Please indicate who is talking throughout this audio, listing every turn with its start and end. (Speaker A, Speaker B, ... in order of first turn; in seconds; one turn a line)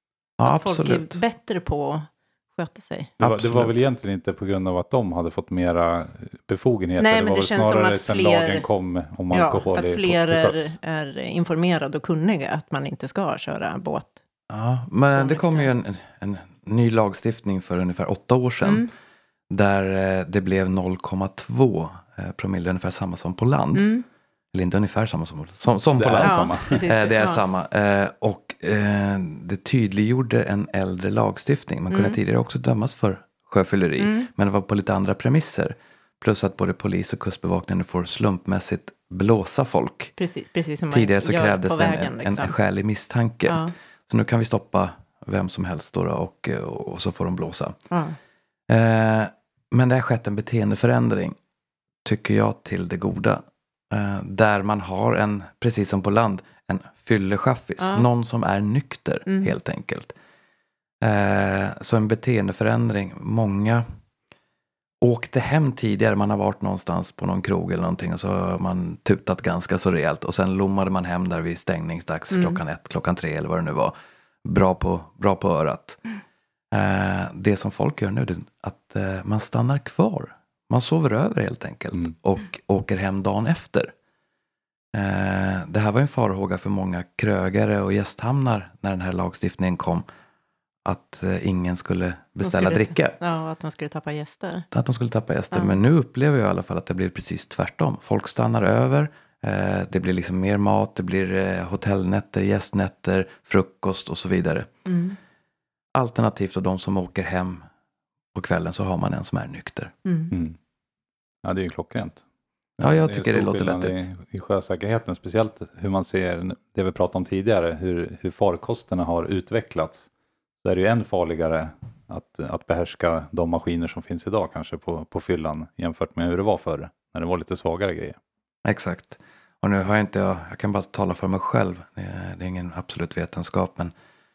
Speaker A: 0.4-1.2
Speaker B: 0.4-3.1
Speaker C: 3.2-10.8
Speaker A: 3.2-3.8
Speaker B: 7.0-8.7
Speaker B: 9.3-14.2
Speaker A: 14.5-18.9
Speaker B: 15.2-15.7
Speaker A: 19.5-23.9
Speaker B: 23.8-24.1
Speaker A: 24.5-40.1
Speaker C: 26.0-26.9
Speaker B: 26.2-27.4
Speaker B: 31.9-32.2
Speaker B: 34.0-34.3
Speaker B: 40.2-42.5
Speaker A: 40.9-47.8
Speaker B: 43.5-43.7
Speaker B: 47.9-48.2
Speaker A: 48.7-51.4
Speaker A: 52.0-60.1
Speaker B: 57.8-58.1
Speaker A: 61.0-63.9
Speaker A: 65.0-73.9
Speaker B: 72.3-72.6
Speaker A: 74.5-76.0
Speaker A: 76.7-83.9
Speaker A: 84.9-90.0
Speaker A: 90.8-93.2
Speaker B: 92.4-94.7
Speaker A: 94.7-104.7
Speaker B: 95.5-95.8
Speaker B: 104.9-105.2
Speaker A: 106.0-107.7
Speaker A: 108.3-109.9
Speaker B: 110.0-110.3
Speaker C: 111.4-112.2
Speaker A: 112.8-114.1
Speaker C: 113.0-120.1
Speaker C: 120.6-128.2
Speaker A: 128.7-133.9